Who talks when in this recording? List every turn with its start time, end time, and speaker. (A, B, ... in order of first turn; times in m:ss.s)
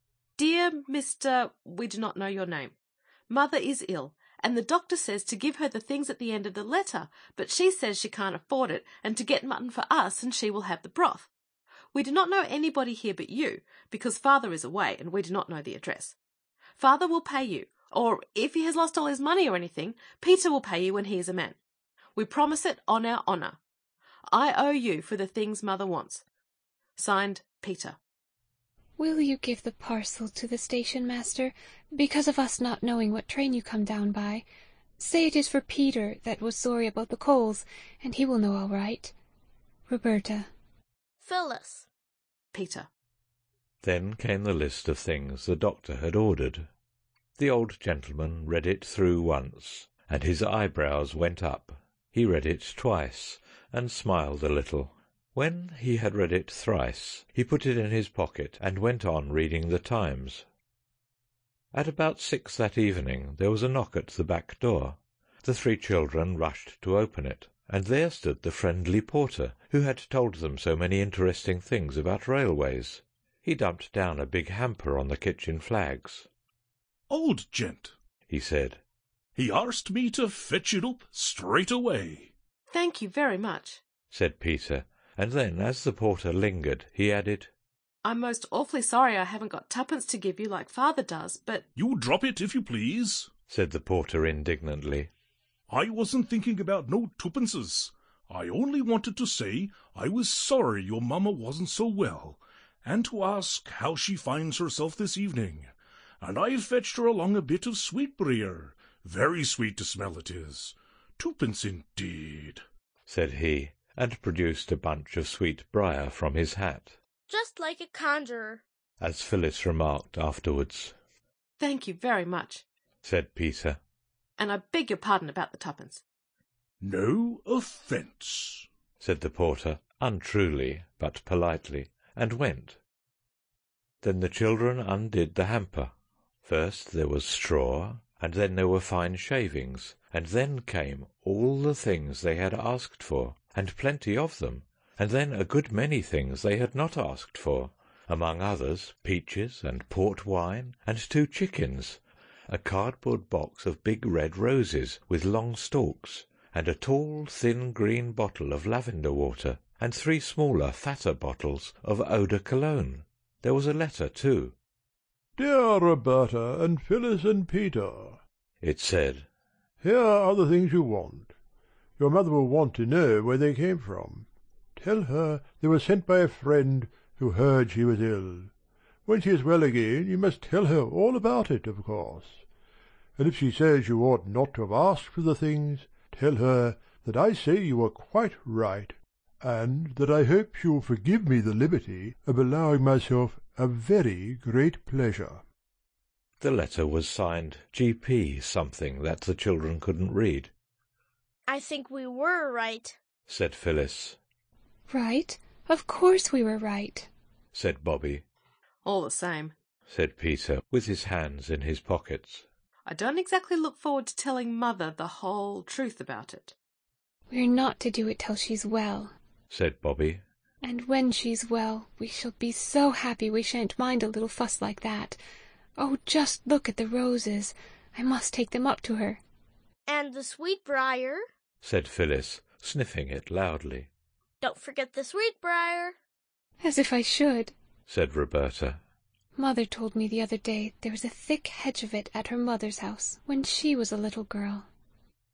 0:00.4-0:02.7 A
0:03.3-0:11.3 A
0:11.9-0:16.2 A
0:16.8-0:21.6 A
0:22.2-0:23.6 A
0:24.3-0:26.2 A
0:27.0-0:28.0 A
0:29.0-0:34.4 B
0:35.0-0:39.1 B
0:39.9-0:40.5 B
0:41.2-0:41.9 C
0:42.5-0:42.9 A
0:43.8-0:46.7 D
0:47.4-1:00.4 D
1:01.7-1:16.3 D
1:17.1-1:17.9 E
1:18.3-1:18.8 D
1:19.4-1:22.3 E
1:22.7-1:23.8 A
1:24.1-1:27.5 D
1:28.0-1:31.7 A
1:31.7-1:33.3 E
1:33.5-1:35.1 D
1:35.7-1:52.6 E
1:53.1-1:57.0 D
1:57.3-1:58.6 C
1:59.0-2:00.9 D
2:01.6-2:02.6 A
2:03.0-2:03.8 D
2:04.4-2:06.0 A
2:06.8-2:08.7 E
2:09.0-2:12.8 D
2:14.0-2:15.9 D
2:16.4-2:44.5 D
2:45.4-2:48.2 F
2:48.6-2:49.3 D
2:49.8-2:51.3 F
2:52.0-2:58.5 F
2:59.0-3:02.4 F
3:03.2-3:15.4 F
3:16.4-3:20.5 D
3:21.5-3:23.0 C
3:23.3-3:24.2 D
3:24.9-3:27.1 B
3:27.5-3:28.2 D
3:28.8-3:29.5 A
3:29.9-3:32.4 D
3:32.8-3:36.5 A
3:37.3-3:39.1 B
3:39.5-3:40.2 D
3:40.6-3:45.2 B
3:45.8-3:49.2 B
3:49.9-3:51.2 C
3:51.6-3:53.9 D
3:54.4-3:56.0 C
3:56.6-3:57.5 B
3:57.9-3:58.8 D
3:59.4-4:04.6 B